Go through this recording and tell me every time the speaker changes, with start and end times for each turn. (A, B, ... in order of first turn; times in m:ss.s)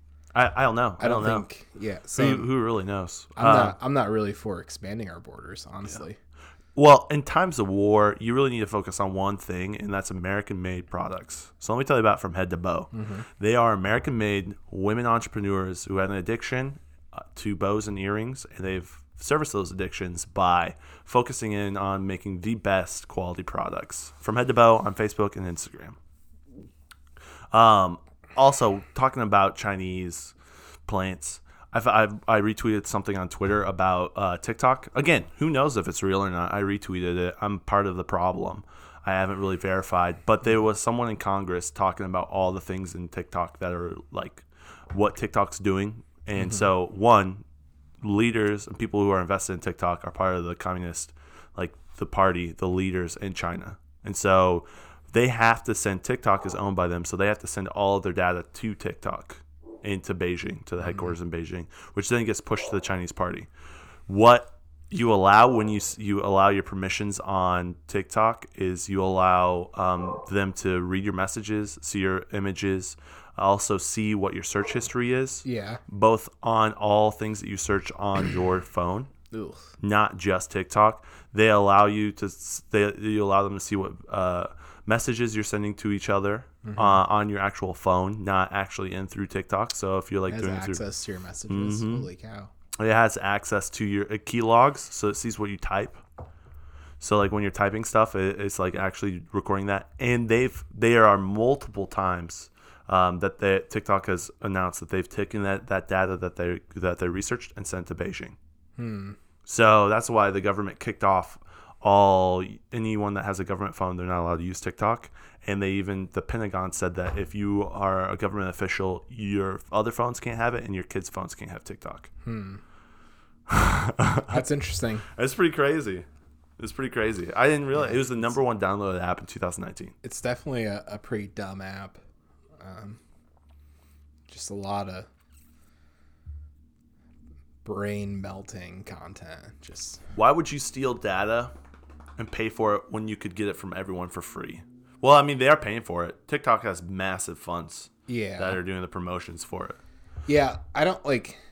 0:00.3-0:01.5 A
0:01.0-0:02.5 B
0:02.2-0:03.8 A
0:03.4-0:06.2 B
0:06.8-0:16.8 A
0:12.9-0:13.3 B
0:17.4-0:26.0 A
0:27.5-0:30.4 A
0:30.9-0:47.4 A
0:46.4-0:46.6 B
0:48.0-1:03.5 A
1:04.1-1:19.1 A
1:15.4-1:15.8 B
1:19.3-1:19.7 B
1:19.8-1:30.8 A
1:26.6-1:27.0 B
1:30.3-1:32.5 B
1:31.5-1:32.1 A
1:32.8-1:36.0 A
1:37.0-1:48.4 A
1:48.8-1:49.2 B
1:49.5-2:02.1 A
2:02.2-2:02.6 B
2:03.5-2:04.4 A
2:04.3-2:05.1 B
2:05.1-2:06.1 A
2:06.6-2:09.9 A
2:10.0-2:12.0 B
2:12.6-2:13.0 B
2:14.3-2:15.1 B
2:17.6-2:20.0 B
2:20.2-2:21.5 A
2:22.2-2:29.8 A
2:28.1-2:28.6 B
2:30.3-2:31.4 B